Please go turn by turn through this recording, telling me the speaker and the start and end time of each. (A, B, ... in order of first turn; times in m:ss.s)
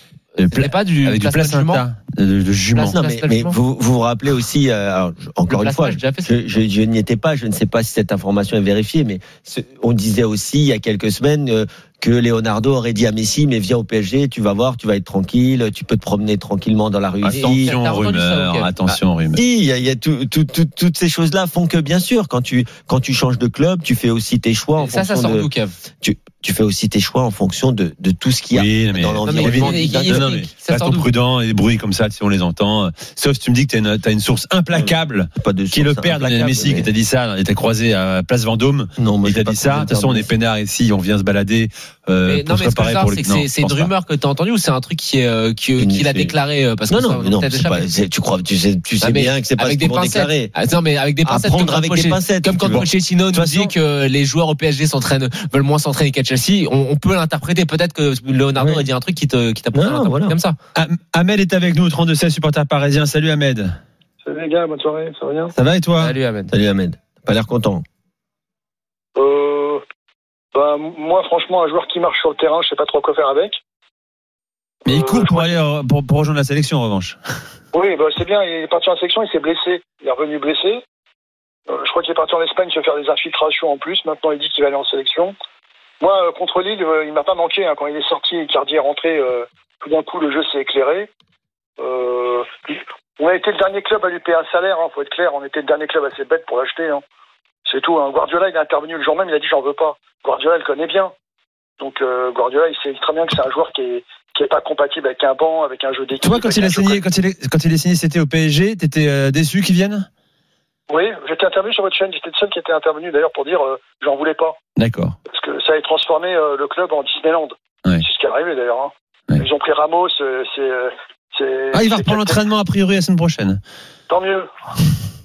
0:00.4-0:01.8 A
0:00.4-0:03.0 B
0:02.8-0:03.6 A
0:02.8-0:17.7 C
0:05.5-0:06.3 A
0:17.2-0:19.4 B
0:17.3-0:19.0 A
0:19.3-0:25.5 C
0:24.8-0:25.8 A
0:26.0-0:30.3 C
0:28.5-0:43.9 B
0:29.2-0:31.1 A
0:34.7-0:36.9 C
0:39.0-0:40.3 C
0:42.3-0:47.9 A
0:45.8-0:46.3 C
0:46.9-0:50.5 C
0:49.0-1:00.6 A
0:51.2-0:52.9 C
0:52.7-0:53.7 B
0:58.6-0:58.9 C
0:59.7-1:00.4 C
1:00.8-1:03.8 B
1:04.2-1:05.5 D
1:05.5-1:06.2 B
1:06.0-1:06.5 A
1:06.5-1:07.8 C
1:09.2-1:09.8 D
1:10.5-1:13.6 D
1:14.8-1:15.6 D
1:14.9-1:17.2 B
1:17.7-1:20.8 D
1:21.7-1:25.3 D
1:26.0-1:31.1 D
1:31.8-1:37.0 D
1:37.7-1:41.1 D
1:41.8-1:47.0 D
1:46.2-1:50.1 B
1:50.9-1:54.6 D
1:54.8-1:55.2 B
1:55.3-2:02.5 D
2:01.7-2:03.6 B
2:04.1-2:04.5 D